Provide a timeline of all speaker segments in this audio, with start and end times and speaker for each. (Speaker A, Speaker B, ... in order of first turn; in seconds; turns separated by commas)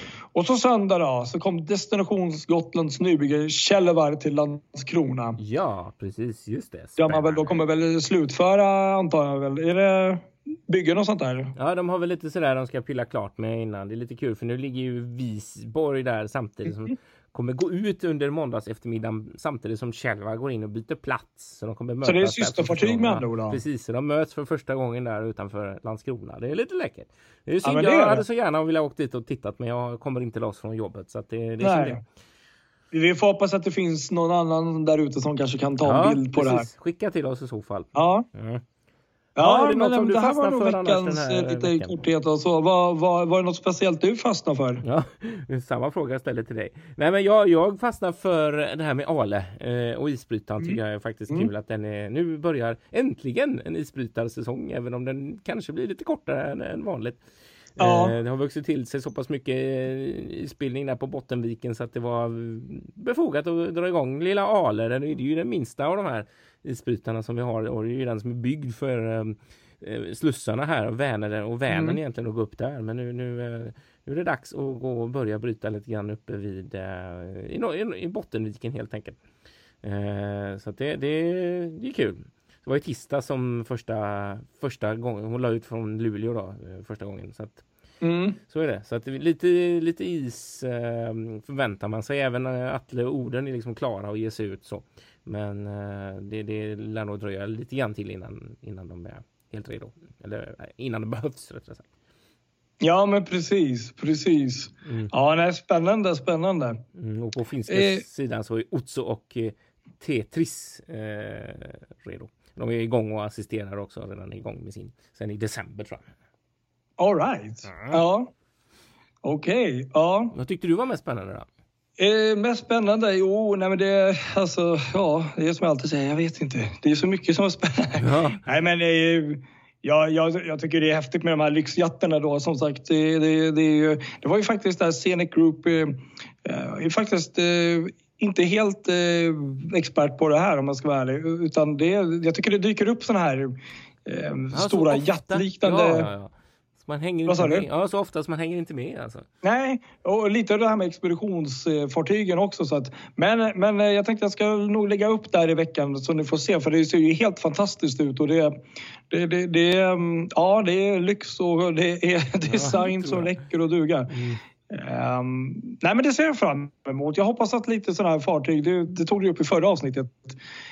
Speaker A: 0.3-5.4, Speaker B: 5.4-7.6, Speaker A: 7.0-11.5, Speaker B: 11.6-32.0, Speaker A: 22.0-23.6, Speaker A: 27.6-28.2, Speaker A: 31.6-32.0, Speaker A: 32.9-36.7, Speaker B: 35.8-38.6, Speaker A: 38.0-38.3, Speaker A: 39.4-44.8, Speaker B: 39.4-42.0, Speaker B: 44.8-57.2, Speaker B: 57.8-79.2, Speaker A: 57.8-58.2, Speaker A: 71.7-72.0, Speaker B: 79.8-87.6, Speaker A: 88.0-88.4, Speaker B: 88.5-101.9, Speaker A: 102.8-106.8, Speaker B: 104.8-105.1, Speaker B: 107.0-116.1, Speaker A: 107.7-108.0, Speaker A: 117.0-118.3, Speaker B: 117.7-118.0, Speaker A: 119.2-120.3, Speaker B: 120.3-121.5, Speaker A: 122.0-143.5, Speaker B: 128.0-128.4, Speaker A: 144.1-146.1, Speaker B: 144.5-149.3, Speaker A: 147.3-147.7, Speaker A: 149.4-164.2, Speaker B: 162.5-163.3, Speaker B: 164.1-164.4, Speaker A: 164.7-170.4